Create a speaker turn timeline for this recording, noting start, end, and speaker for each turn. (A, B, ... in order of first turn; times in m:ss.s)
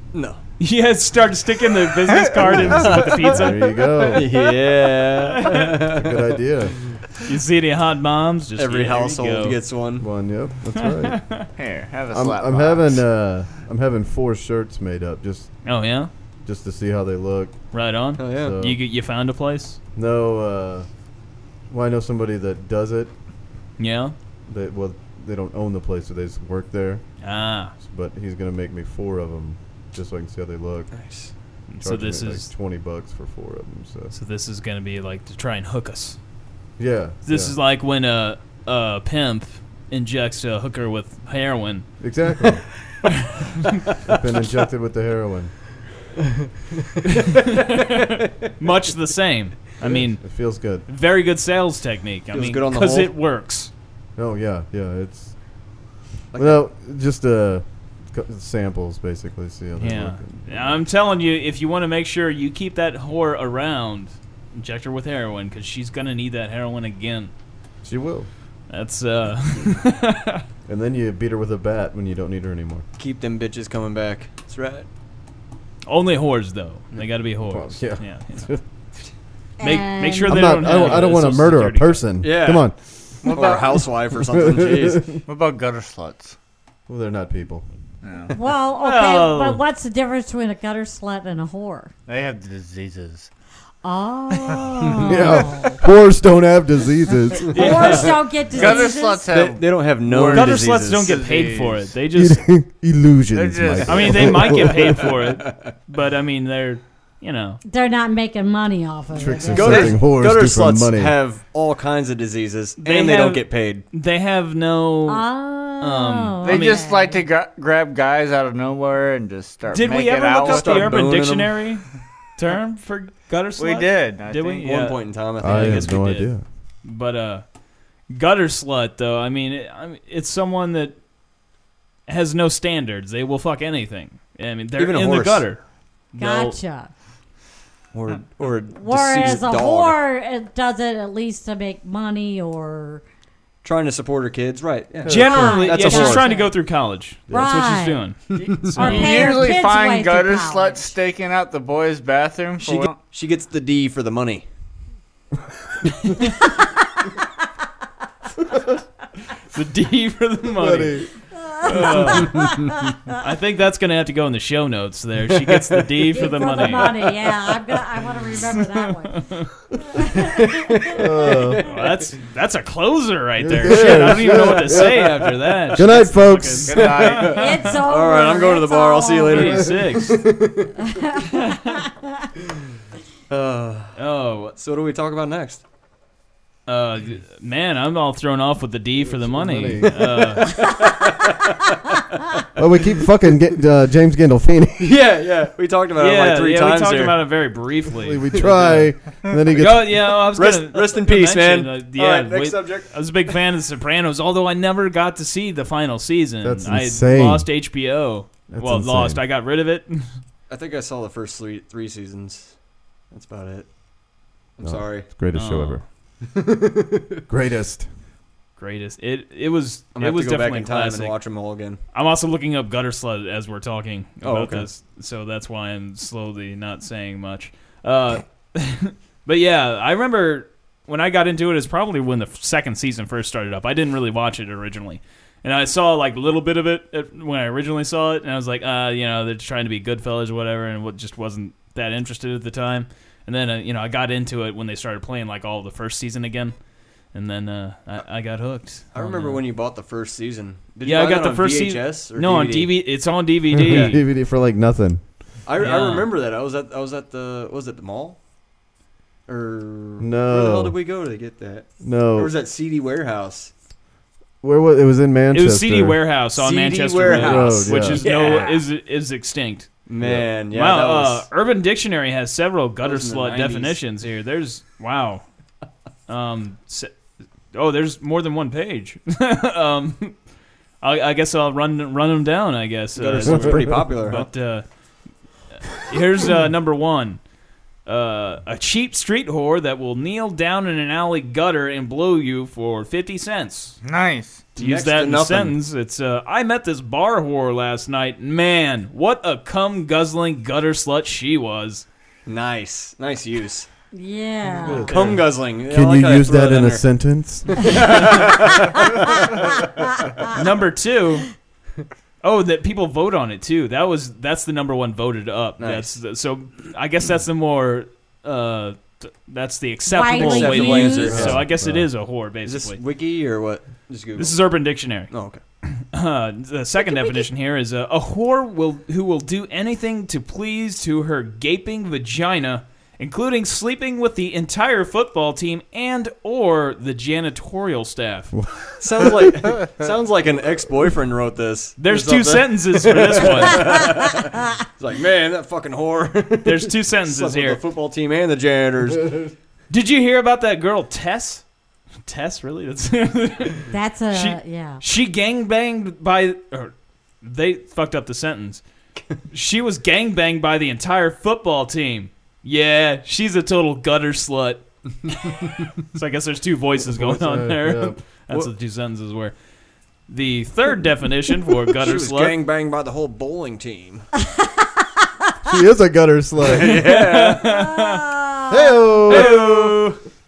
0:00.1-0:00.4 A
0:00.6-0:03.7 B
0:02.4-0:04.3 C
0:02.6-0:03.4 A
0:04.1-0:06.1 A
0:05.2-0:05.8 B
0:06.0-0:06.8 C
0:07.2-0:09.6 B
0:08.6-0:10.1 A
0:10.0-0:11.2 C
0:10.8-0:11.5 B
0:11.6-0:13.0 D
0:12.1-0:15.6 C
0:15.6-0:16.1 B
0:16.4-0:17.6 C
0:17.7-0:19.8 B
0:18.2-0:18.6 A
0:18.4-0:18.8 C
0:20.0-0:20.9 C
0:21.7-0:23.1 C
0:23.8-0:24.1 B
0:24.5-0:27.0 C
0:27.2-0:27.7 B
0:27.8-0:30.9 C
0:30.9-0:31.3 A
0:31.7-0:32.5 B
0:31.8-0:34.1 C
0:34.1-0:36.2 B
0:36.8-0:37.6 C
0:37.2-0:41.9 B
0:42.0-0:42.7 C
0:44.0-0:45.5 C
0:47.7-0:50.2 B
0:49.8-0:50.8 C
0:50.9-0:53.7 B
0:52.3-0:53.1 A
0:54.2-0:55.4 C
0:56.3-0:56.6 A
0:56.4-1:00.8 C
0:59.8-1:07.3 B
1:07.8-1:08.3 C
1:08.7-1:10.4 B
1:10.7-1:12.8 C
1:13.0-1:14.9 A
1:15.9-1:18.5 B
1:17.5-1:18.6 C
1:19.6-1:20.4 E
1:19.6-1:22.0 B
1:20.2-1:22.7 C
1:22.2-1:22.7 A
1:23.2-1:23.9 D
1:23.3-1:25.2 A
1:24.3-1:25.2 C
1:25.3-1:26.4 D
1:26.9-1:27.6 C
1:28.0-1:28.3 D
1:28.3-1:31.9 E
1:28.7-1:29.6 B
1:32.1-1:33.3 D
1:33.8-1:35.8 E
1:35.0-1:37.8 C
1:37.5-1:39.2 E
1:37.5-1:38.2 B
1:38.5-1:41.9 D
1:38.7-1:41.2 A
1:40.3-1:42.5 B
1:42.1-1:44.8 C
1:43.3-1:44.5 D
1:43.9-1:47.6 B
1:45.4-1:45.7 A
1:47.6-1:50.0 E
1:49.1-1:51.1 C
1:49.5-1:53.8 A
1:52.8-1:55.3 B
1:55.1-1:57.2 E
1:55.8-1:56.8 B
1:56.4-2:01.1 D
1:59.7-2:01.8 B
2:00.4-2:01.6 A
2:02.4-2:06.3 B
2:03.6-2:04.8 D
2:04.6-2:06.1 A
2:05.4-2:06.4 C
2:06.8-2:07.4 B
2:08.1-2:11.0 B
2:12.1-2:16.6 B
2:14.8-2:15.5 A
2:16.2-2:16.9 E
2:17.9-2:20.0 A
2:18.7-2:23.0 E
2:23.6-2:26.4 A
2:25.0-2:25.7 C
2:25.1-2:28.2 B
2:25.1-2:26.6 E
2:27.3-2:27.7 C
2:27.3-2:28.0 E
2:28.3-2:29.1 A
2:28.7-2:30.9 E
2:28.7-2:29.2 B
2:28.8-2:33.0 D
2:32.6-2:34.5 A
2:39.5-2:41.1 B
2:40.6-2:41.1 C
2:41.4-2:42.7 E
2:41.6-2:42.5 B
2:43.2-2:47.1 B
2:45.5-2:45.8 A
2:46.1-2:49.2 E
2:49.1-2:49.5 B
2:50.0-2:50.5 E
2:50.4-2:52.0 A
2:51.0-2:51.6 C
2:51.7-2:57.8 B
2:53.4-2:56.9 C
2:54.3-2:56.1 A
2:56.7-2:57.4 D
2:56.8-3:00.7 A
2:57.3-2:59.6 E
2:59.3-3:00.2 B
3:00.8-3:02.0 E
3:03.3-3:04.0 A
3:04.0-3:04.6 B
3:04.6-3:05.6 A
3:06.7-3:10.6 B
3:09.0-3:10.1 C
3:10.4-3:11.6 A
3:12.6-3:14.9 C
3:14.8-3:17.2 A
3:16.0-3:18.9 B
3:18.0-3:20.1 C
3:19.6-3:30.1 B
3:20.3-3:22.9 A
3:26.4-3:27.5 C
3:28.5-3:29.2 C
3:30.5-3:32.6 A
3:33.1-3:33.7 A
3:34.6-3:35.1 A
3:34.6-3:35.8 C
3:35.3-3:35.8 B
3:36.3-3:37.2 A
3:37.3-3:37.9 C
3:38.6-3:41.2 B
3:40.0-3:41.8 A
3:41.9-4:06.6 B
3:44.2-3:44.7 A
4:07.1-4:09.4 B
4:08.9-4:12.8 A
4:10.8-4:14.0 B
4:13.5-4:15.1 C
4:13.6-4:14.0 A
4:15.5-4:18.2 A
4:15.6-4:16.1 B
4:19.3-4:23.5 A
4:20.0-4:20.8 C
4:21.8-4:22.3 C
4:24.4-4:26.0 C
4:25.3-4:29.7 B
4:26.4-4:28.6 A
4:27.1-4:28.1 C
4:29.9-4:31.3 A
4:30.5-4:35.2 B
4:32.8-4:33.8 A
4:36.1-4:36.9 B
4:37.5-4:40.1 B
4:40.8-4:44.6 B
4:43.0-4:44.3 A
4:45.7-4:47.2 B
4:47.9-4:53.8 B
4:53.8-4:54.5 D
4:54.6-4:55.6 A
4:54.6-5:01.8 B
5:02.3-5:03.7 A
5:03.9-5:04.9 E
5:04.6-5:07.8 C
5:04.9-5:06.9 A
5:07.5-5:08.9 A
5:10.3-5:11.3 B
5:12.2-5:22.8 B
5:15.6-5:15.9 A
5:19.9-5:21.3 E
5:20.1-5:21.4 A
5:21.0-5:21.9 C
5:22.4-5:24.4 A
5:24.2-5:25.1 B
5:25.1-5:25.4 A
5:25.6-5:38.3 B
5:38.3-5:39.3 C
5:38.8-5:49.3 A
5:41.8-5:43.9 B
5:46.4-5:47.6 B
5:49.7-5:51.4 B
5:52.1-5:58.6 B
5:53.7-5:54.8 E
5:59.3-6:09.3 B
6:06.9-6:08.0 C
6:10.1-6:12.4 B
6:11.8-6:14.1 A
6:15.5-6:16.8 C
6:16.4-6:17.5 A
6:16.6-6:18.1 B
6:17.4-6:18.6 E
6:18.5-6:19.4 C
6:19.1-6:20.0 B
6:19.1-6:19.9 A